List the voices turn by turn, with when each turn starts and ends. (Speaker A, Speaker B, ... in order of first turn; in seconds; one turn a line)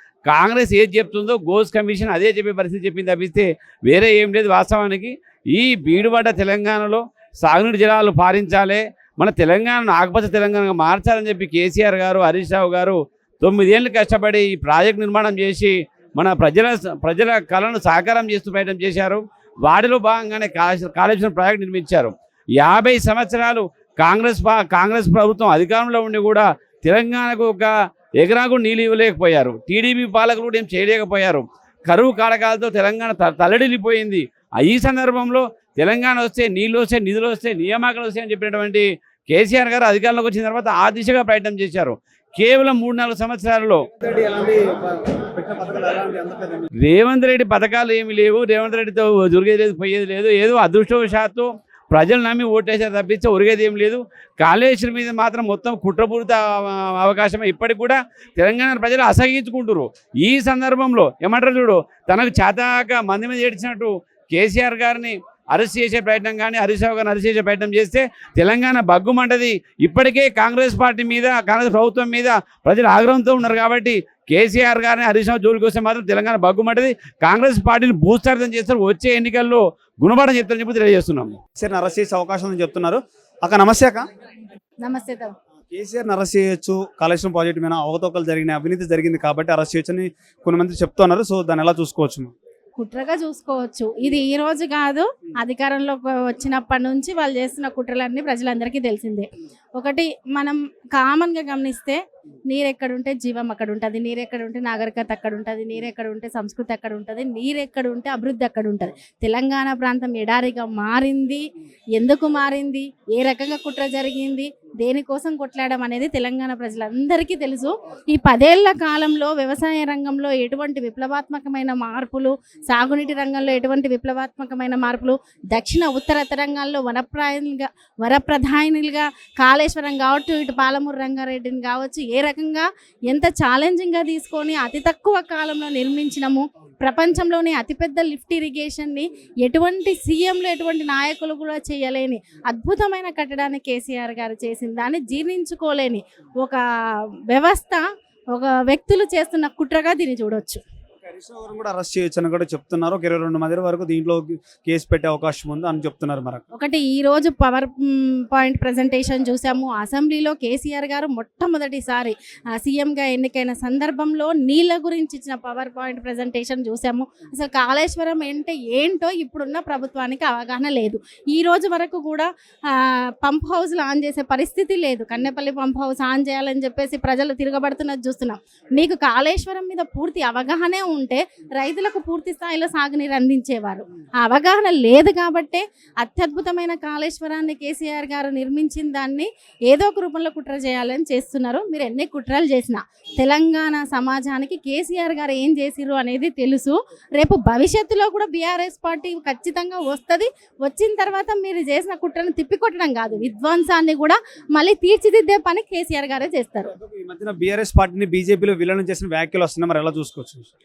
Speaker A: 0.2-43.8
Speaker B: 44.0-46.7
Speaker A: 46.8-81.4
Speaker B: 81.6-84.1
Speaker C: 84.8-85.3
Speaker B: 85.7-92.3
Speaker C: 92.8-111.4
Speaker C: 112.0-150.6
Speaker B: 151.1-156.4
Speaker C: 156.5-206.7
Speaker B: 206.8-210.5